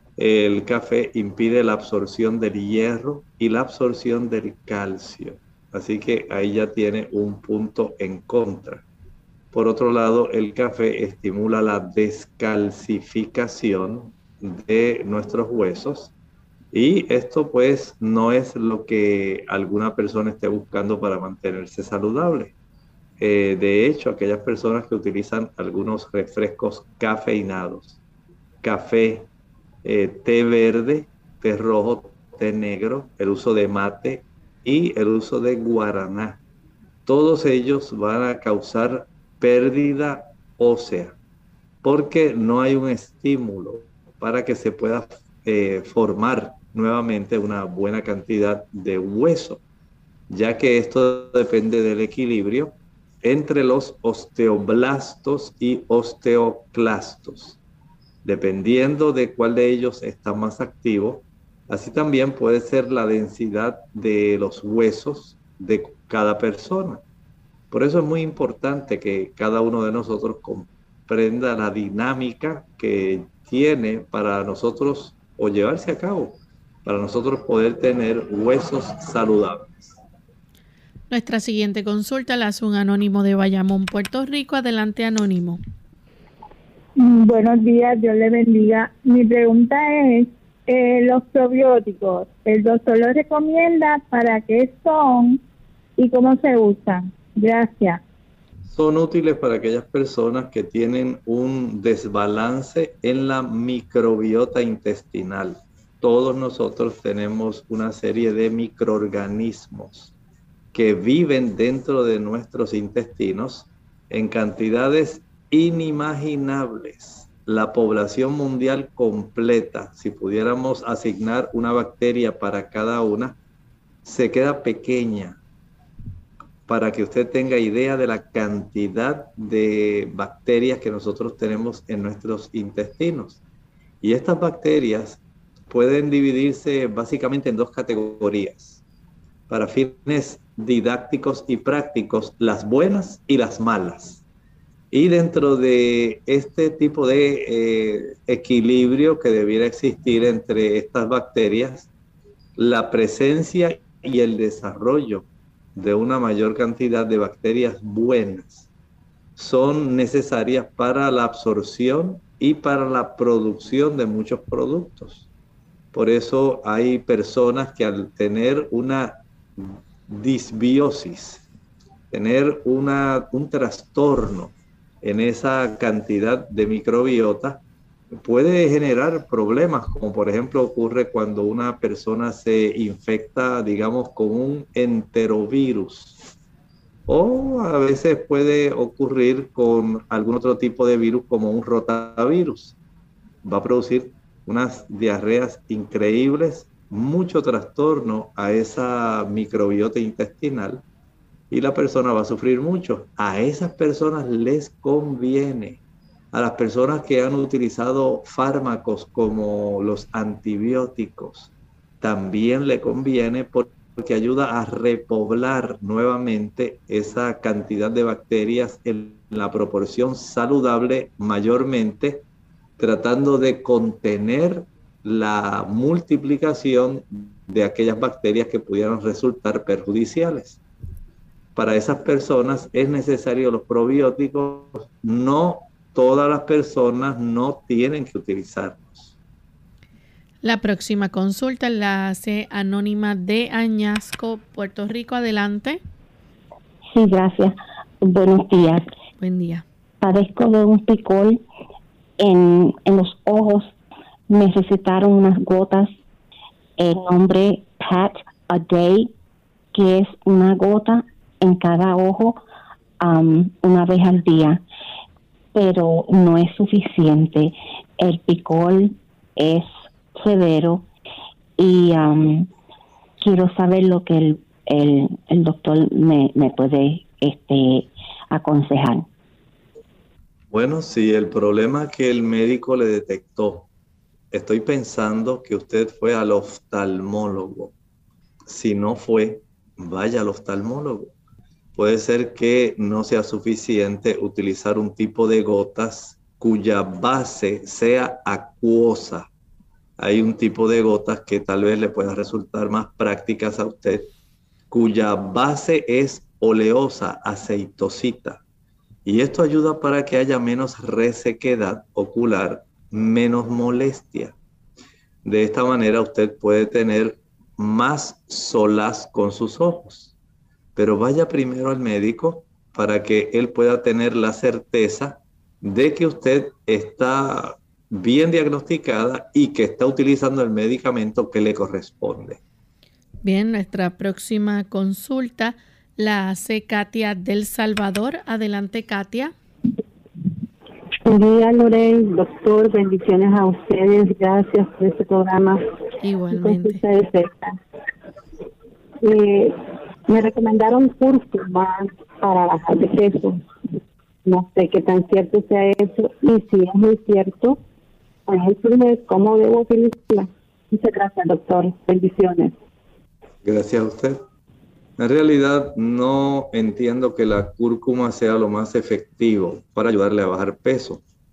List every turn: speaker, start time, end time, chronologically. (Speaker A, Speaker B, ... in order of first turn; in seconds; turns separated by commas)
Speaker A: 0.2-8.8, Speaker A: 9.5-16.1, Speaker A: 16.7-22.5, Speaker A: 23.2-28.0, Speaker A: 28.6-29.3, Speaker A: 29.8-36.4, Speaker A: 37.1-41.2, Speaker A: 41.8-49.6, Speaker A: 50.3-57.6, Speaker A: 58.2-67.0, Speaker A: 67.7-79.9, Speaker B: 81.1-85.6, Speaker C: 87.0-95.4, Speaker C: 96.0-98.0, Speaker A: 98.7-110.1, Speaker A: 110.7-123.4, Speaker A: 124.0-125.4, Speaker A: 126.7-133.4, Speaker A: 134.0-138.8, Speaker A: 139.5-144.2, Speaker A: 144.9-151.9, Speaker A: 152.6-158.7, Speaker A: 159.4-165.3, Speaker A: 165.9-171.5, Speaker A: 172.1-177.6, Speaker A: 178.1-186.2, Speaker A: 187.1-192.8, Speaker A: 193.4-200.8, Speaker A: 201.5-205.8, Speaker A: 206.3-222.2, Speaker A: 222.8-230.6, Speaker A: 231.6-239.1, Speaker B: 240.4-245.8, Speaker D: 246.9-248.8, Speaker B: 249.2-249.6, Speaker D: 250.0-251.4, Speaker D: 252.2-253.8, Speaker D: 254.3-255.9, Speaker D: 256.8-259.1, Speaker D: 259.7-262.4, Speaker D: 263.0-264.6, Speaker D: 265.5-270.9, Speaker D: 271.6-272.5, Speaker D: 273.2-279.1, Speaker A: 280.5-283.7, Speaker A: 284.3-287.7, Speaker A: 288.4-291.1, Speaker A: 291.8-299.3, Speaker A: 300.0-304.1, Speaker A: 304.7-308.4, Speaker A: 309.1-314.4, Speaker A: 315.2-320.1, Speaker A: 320.8-332.4, Speaker B: 333.2-339.3, Speaker E: 341.1-345.6, Speaker B: 346.0-346.8, Speaker E: 346.3-347.5, Speaker E: 349.1-349.5, Speaker E: 350.1-353.4, Speaker E: 354.3-357.6, Speaker E: 358.3-362.5, Speaker A: 363.4-364.2, Speaker A: 365.0-371.0